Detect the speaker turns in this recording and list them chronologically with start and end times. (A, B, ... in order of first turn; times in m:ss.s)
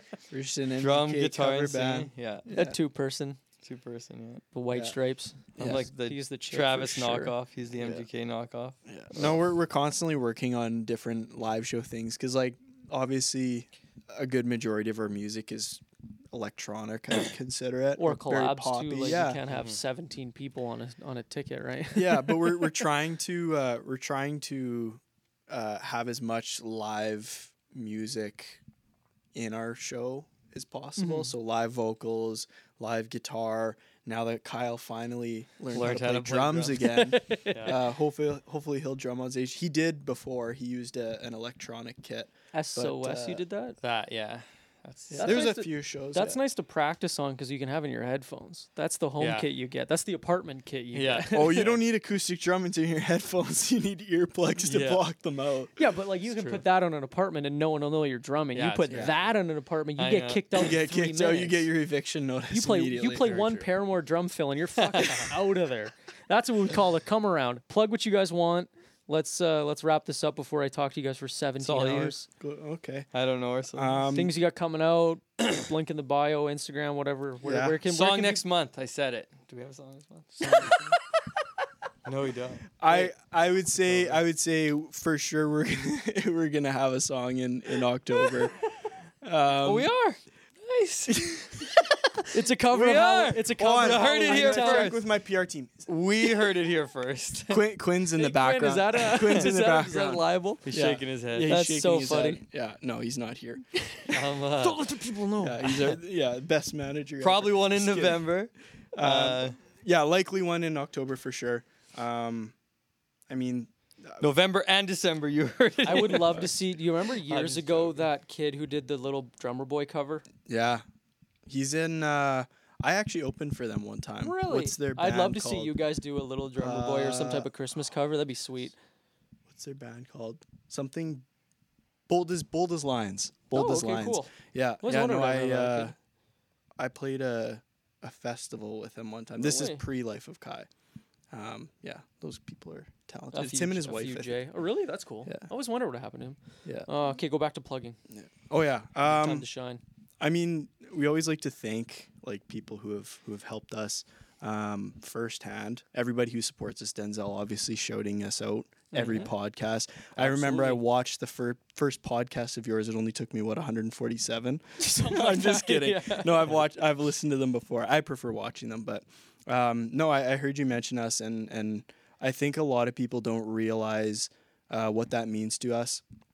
0:00.3-0:02.8 A
0:00.8-0:02.5 B
0:02.5-0:03.4 C
0:03.6-0:04.4 B
0:04.5-0:07.3 C
0:05.6-0:05.8 A
0:05.6-0:09.3 B
0:07.8-0:08.1 A
0:08.9-0:19.4 A
0:18.0-0:22.8 C
0:19.5-0:19.8 B
0:21.9-0:28.6 A
0:29.3-0:43.4 A
0:31.0-0:31.3 C
0:35.7-0:36.9 B
0:36.9-0:37.8 C
0:42.5-0:43.8 C
0:43.8-0:45.4 B
0:45.1-0:46.4 A
0:45.2-0:51.7 C
0:49.2-0:49.5 B
0:50.9-0:51.8 B
0:51.3-0:55.7 A
0:54.6-0:55.0 B
0:55.8-1:01.7 C
0:56.3-0:56.6 B
0:58.5-0:59.4 B
1:00.0-1:00.6 B
1:00.5-1:03.7 A
1:02.5-1:12.3 C
1:04.8-1:05.3 B
1:11.6-1:12.2 B
1:12.3-1:13.1 A
1:13.1-1:14.0 B
1:13.7-1:14.3 A
1:14.1-1:18.4 C
1:17.4-1:17.8 A
1:17.8-1:21.0 B
1:22.0-1:23.1 B
1:22.8-1:28.6 A
1:23.8-1:24.2 B
1:29.2-1:29.9 A
1:29.6-1:31.9 B
1:31.1-1:31.4 A
1:32.3-1:34.9 C
1:32.7-1:35.0 B
1:33.5-1:35.9 A
1:35.9-1:37.6 B
1:37.5-1:43.6 A
1:38.2-1:40.6 C
1:39.2-1:41.6 B
1:41.5-1:42.4 C
1:43.8-1:46.0 C
1:44.1-1:45.0 B
1:45.4-1:48.3 A
1:47.2-1:49.6 B
1:48.9-1:52.6 A
1:53.3-1:54.3 A
1:54.2-1:56.5 B
1:55.8-2:00.2 C
1:57.2-1:58.0 B
2:00.5-2:00.8 A
2:01.5-2:05.8 A
2:04.2-2:08.8 C
2:06.6-2:07.5 A
2:09.5-2:11.2 A
2:12.1-2:16.0 A
2:13.5-2:15.9 C
2:16.8-2:20.7 A
2:19.4-2:19.8 C
2:21.3-2:24.4 A
2:23.3-2:28.0 C
2:28.1-2:29.5 A
2:29.0-2:29.8 C
2:30.2-2:56.0 A
2:39.0-2:39.3 B
2:39.0-2:39.2 C
2:40.2-2:40.8 B
2:40.2-2:40.8 C
2:44.8-2:46.6 C